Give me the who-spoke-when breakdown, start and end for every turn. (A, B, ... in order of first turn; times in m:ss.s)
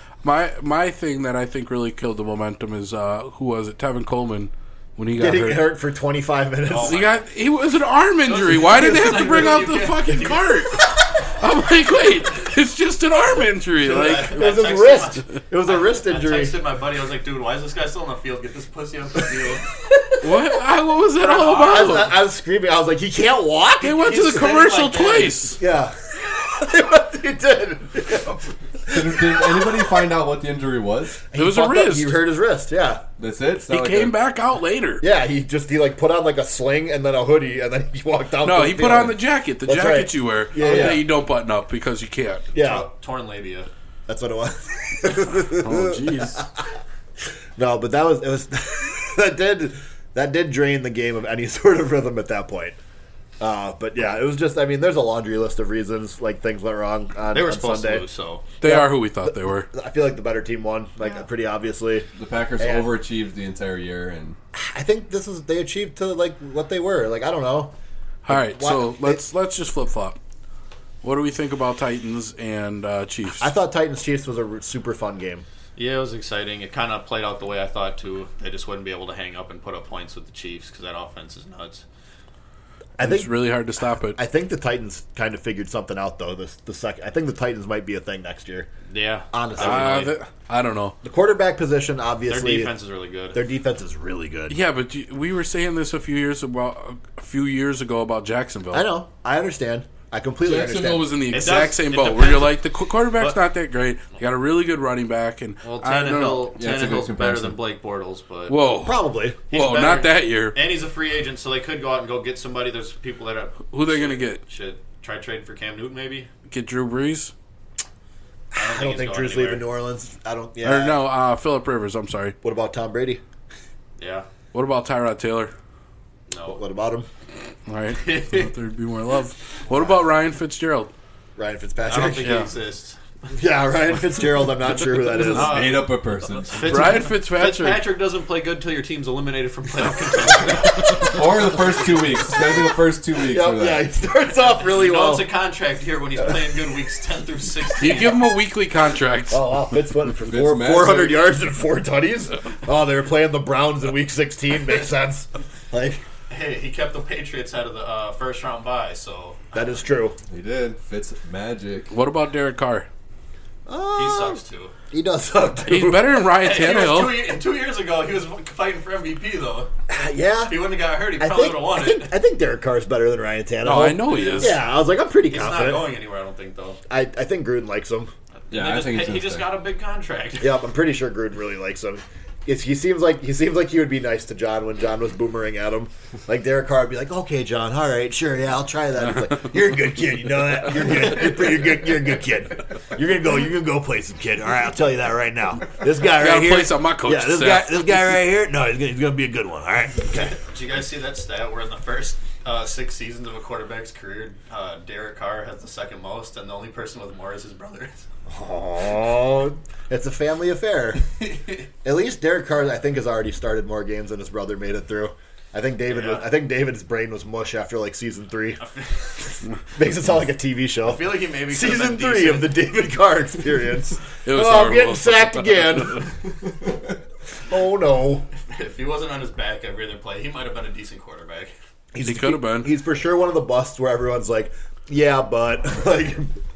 0:00.2-0:05.6 A
0:05.2-0:07.0 B
0:06.7-0:07.2 C
0:06.8-0:14.4 A
0:08.3-0:10.7 C
0:08.7-0:09.4 B
0:13.8-0:19.8 C
0:14.2-0:16.5 B
0:20.2-0:22.1 A
0:21.2-0:22.1 C
0:21.6-0:24.2 B
0:23.8-0:25.6 A
0:24.0-0:25.6 C
0:25.6-0:30.0 B
0:28.9-0:31.2 D
0:31.2-0:33.0 B
0:31.3-0:32.2 A
0:33.2-0:34.2 D
0:33.7-0:35.0 A
0:35.0-0:41.1 B
0:38.4-0:42.5 A
0:40.6-0:41.0 D
0:42.5-0:42.9 B
0:42.5-0:43.7 C
0:44.1-0:46.5 B
0:45.5-0:46.5 A
0:47.6-0:52.8 B
0:53.4-0:58.0 B
0:57.3-0:58.5 C
0:58.6-0:59.7 A
0:58.6-1:02.9 B
1:02.2-1:04.4 D
1:04.5-1:07.8 B
1:08.2-1:10.2 A
1:08.3-1:09.2 B
1:11.0-1:13.5 A
1:13.4-1:15.4 B
1:15.8-1:21.8 C
1:23.0-1:28.7 B
1:23.0-1:24.2 A
1:28.9-1:30.2 C
1:29.3-1:30.1 B
1:29.6-1:31.0 A
1:31.0-1:32.7 B
1:32.3-1:33.4 C
1:33.3-1:34.6 B
1:34.5-1:38.9 A
1:38.7-1:41.2 B
1:40.4-1:46.5 A
1:41.3-1:43.4 C
1:45.6-1:48.5 C
1:46.6-1:47.6 D
1:48.5-1:50.6 A
1:48.8-1:49.4 B
1:49.5-1:56.3 C
1:53.7-1:54.4 A
1:56.5-1:57.3 A
1:58.5-2:01.0 B
1:58.6-1:59.6 C
2:00.6-2:02.4 A
2:02.4-2:03.2 B
2:04.0-2:04.3 C
2:04.5-2:05.5 A
2:06.3-2:06.6 C
2:06.5-2:07.1 B
2:07.7-2:10.9 A
2:08.0-2:08.5 C
2:11.4-2:12.4 B
2:11.9-2:13.3 C
2:12.2-2:12.5 A
2:13.4-2:15.7 B
2:15.1-2:21.2 C
2:15.2-2:17.0 D
2:16.7-2:17.8 A
2:21.0-2:23.9 D
2:23.2-2:25.3 B
2:24.4-2:28.3 C
2:27.8-2:29.4 A
2:29.3-2:36.0 B
2:30.2-2:31.3 D
2:36.3-2:39.6 C
2:39.5-2:40.2 B
2:40.3-2:41.9 D
2:41.9-2:42.9 A
2:43.7-2:46.2 B
2:44.0-2:44.7 C
2:45.6-2:47.2 A
2:46.4-2:49.7 C
2:49.9-2:55.9 B
2:50.5-2:52.1 C
2:53.6-2:54.6 A
2:54.1-2:54.6 C
2:55.3-2:56.8 C
2:56.9-2:58.1 B
2:58.5-3:00.6 C
2:58.5-2:59.5 D
3:00.4-3:20.3 B
3:16.1-3:17.8 A
3:20.1-3:28.1 C
3:28.3-3:31.1 B
3:31.8-3:38.6 B
3:35.9-3:36.3 C
3:38.6-3:39.4 C
3:39.7-3:46.1 B
3:40.8-3:42.5 C
3:44.2-3:46.0 A
3:47.5-3:48.3 B
3:48.4-3:51.5 C
3:51.9-3:56.3 B
3:52.0-3:52.7 A